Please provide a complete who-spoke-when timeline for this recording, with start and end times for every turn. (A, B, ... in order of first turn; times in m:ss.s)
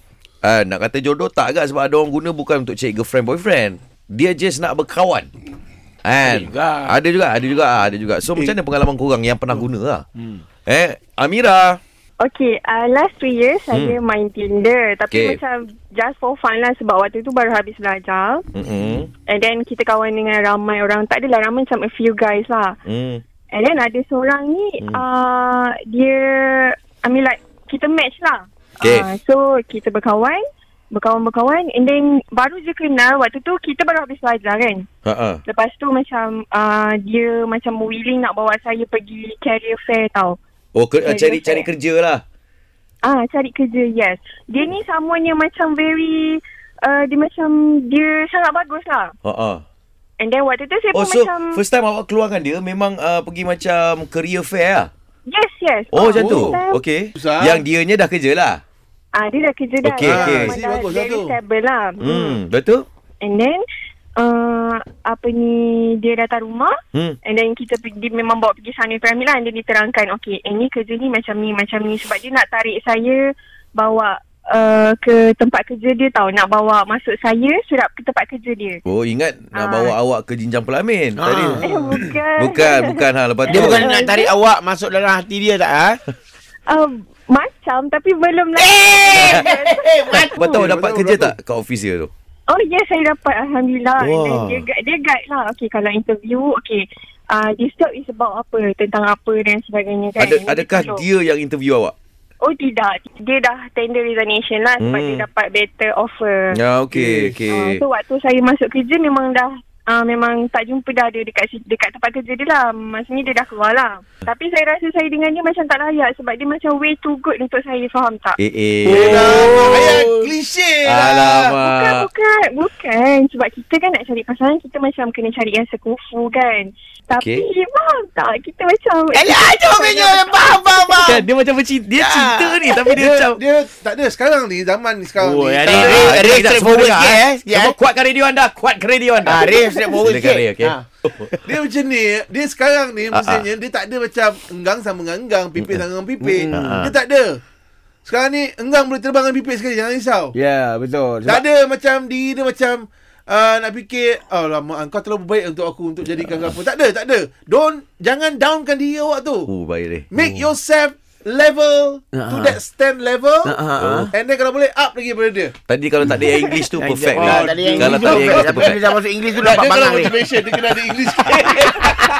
0:00.4-0:05.3 A
0:06.0-0:10.0 A
0:06.3-0:06.9 B
0:10.6-0:11.8 A
0:12.2-0:18.4 C
0:13.7-0:14.0 A
0:15.1-0:15.4 A
0:18.5-0:19.1 A
0:19.3-0:22.8 C
0:22.9-0:23.2 A
0:23.5-0:34.9 C
0:28.8-0:29.1 A
0:35.0-0:35.4 A
0:35.5-0:40.4 C
0:40.8-0:42.2 A
0:41.0-0:41.7 C
0:43.0-0:49.1 C
0:49.2-0:49.6 A
0:50.2-0:51.6 C
0:50.9-0:54.9 A
0:55.3-0:56.8 C
0:55.9-0:58.6 A
0:56.1-0:56.6 D
0:57.2-0:57.6 D
0:59.1-1:02.4 C
0:59.8-1:00.6 A
1:00.0-1:01.4 D
1:02.0-1:02.8 A
1:03.2-1:03.6 C
1:04.2-1:13.2 C
1:13.8-1:18.8 C
1:18.8-1:21.6 A
1:19.6-1:20.0 C
1:21.2-1:21.6 B
1:21.6-1:22.2 D
1:21.6-1:24.3 C
1:22.4-1:23.9 A
1:23.5-1:26.0 B
1:26.7-1:30.5 C
1:28.6-1:30.4 B
1:30.3-1:31.4 D
1:30.4-1:32.1 A
1:32.5-1:41.0 C
1:34.0-1:34.6 A
1:40.2-1:41.9 A
1:42.4-1:46.6 C
1:44.8-1:45.3 A
1:46.5-1:47.8 A
1:46.9-1:47.4 D
1:47.5-1:58.4 C
1:58.4-2:00.1 A
1:58.9-2:00.3 B
1:58.9-2:01.5 D
2:00.8-2:02.1 A
2:01.6-2:11.2 C
2:09.1-2:11.2 B
2:11.0-2:13.4 A
2:12.0-2:13.0 B
2:12.9-2:16.2 D
2:15.2-2:21.4 A
2:15.6-2:17.8 B
2:19.2-2:20.8 B
2:21.4-2:27.4 D
2:23.1-2:23.5 A
2:25.6-2:25.8 A
2:26.2-2:26.8 B
2:26.5-2:27.0 A
2:28.0-2:30.3 D
2:30.3-2:31.4 B
2:31.2-2:39.5 D
2:39.5-2:40.5 A
2:40.1-2:43.6 D
2:42.1-2:42.6 B
2:43.5-2:44.1 B
2:43.5-2:44.1 A
2:44.1-2:45.5 D
2:45.7-2:48.8 A
2:46.1-2:50.2 B
2:47.2-2:48.8 D
2:49.4-2:52.1 D
2:51.3-2:52.0 A